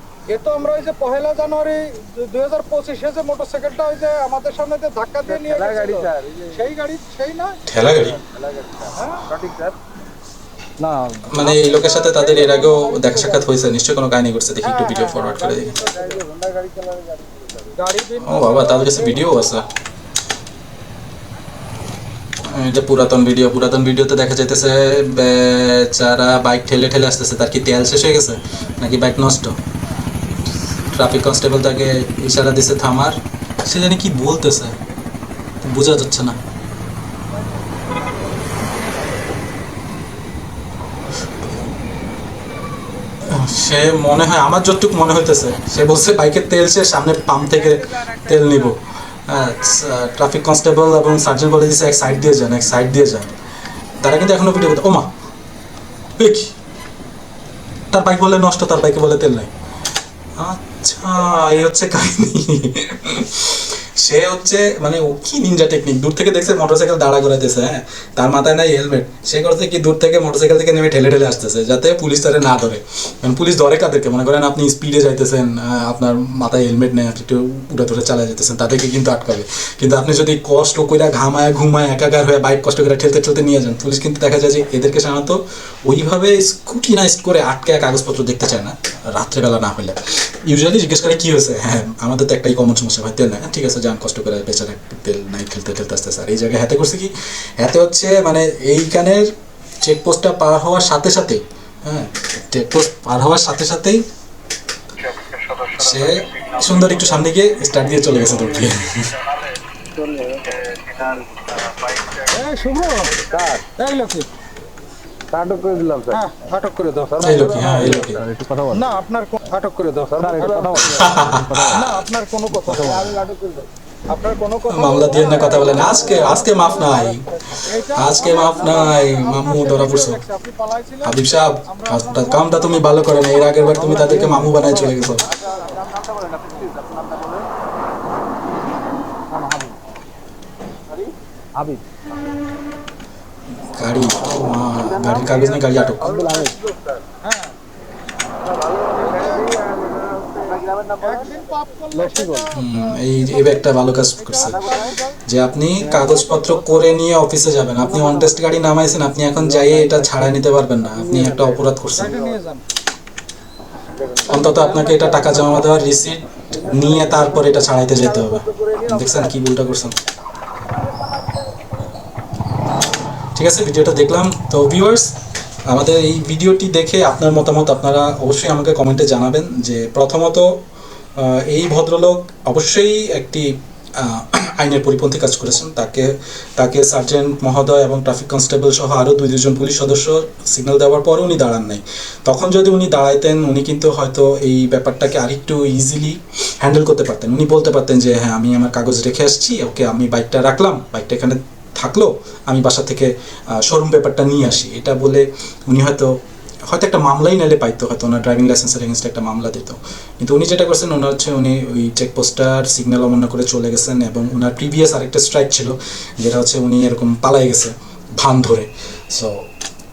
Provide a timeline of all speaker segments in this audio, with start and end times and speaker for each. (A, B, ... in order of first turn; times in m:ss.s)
0:00.3-0:07.7 A
0:05.3-0:06.6 B
0:07.7-0:08.2 C
0:07.7-0:09.8 B
0:09.0-0:09.2 A
0:10.8-0:13.5 B
0:11.3-0:15.8 C
0:14.6-0:16.2 A
0:15.2-0:17.8 B
0:17.8-0:19.2 A
0:18.2-0:19.7 C
0:22.5-0:29.6 C
0:30.9-0:34.8 C
0:35.6-0:36.4 C
0:38.6-0:39.0 A
0:43.3-0:53.3 C
0:47.6-0:48.4 B
0:54.0-0:55.1 C
0:56.2-0:56.5 C
0:57.9-0:59.5 C
1:00.4-1:44.0 C
1:45.1-1:47.3 B
1:45.8-1:49.1 C
1:48.0-1:52.3 B
1:52.3-1:53.2 A
1:53.3-1:53.6 B
1:53.8-1:54.3 A
1:55.3-1:56.2 B
1:56.1-1:57.6 A
1:57.1-1:58.9 B
1:57.2-1:58.2 C
1:58.7-2:01.1 A
2:00.2-2:01.7 B
2:01.0-2:01.9 C
2:01.6-2:03.2 A
2:02.7-2:03.7 B
2:04.1-2:15.7 A
2:04.7-2:07.2 C
2:05.2-2:07.0 B
2:08.0-2:10.2 C
2:08.0-2:09.1 B
2:11.0-2:15.3 C
2:13.8-2:17.5 B
2:19.4-2:19.6 A
2:20.9-2:21.8 B
2:23.7-2:26.3 C
2:24.8-2:27.0 B
2:27.2-2:27.5 A
2:28.4-2:32.5 B
2:29.0-2:29.6 A
2:31.0-2:35.2 A
2:32.6-2:42.2 C
2:34.4-2:35.0 B
2:35.9-2:36.2 B
2:35.9-2:36.7 A
2:37.8-2:38.5 B
2:39.4-2:40.3 B
2:40.9-2:42.4 B
2:42.0-2:42.6 A
2:44.0-2:45.9 B
2:44.3-2:50.0 C
2:46.5-2:49.4 B
2:50.9-2:51.6 B
2:53.4-2:55.2 C
2:55.7-3:00.6 C
3:01.2-3:26.2 C
3:26.7-3:39.5 C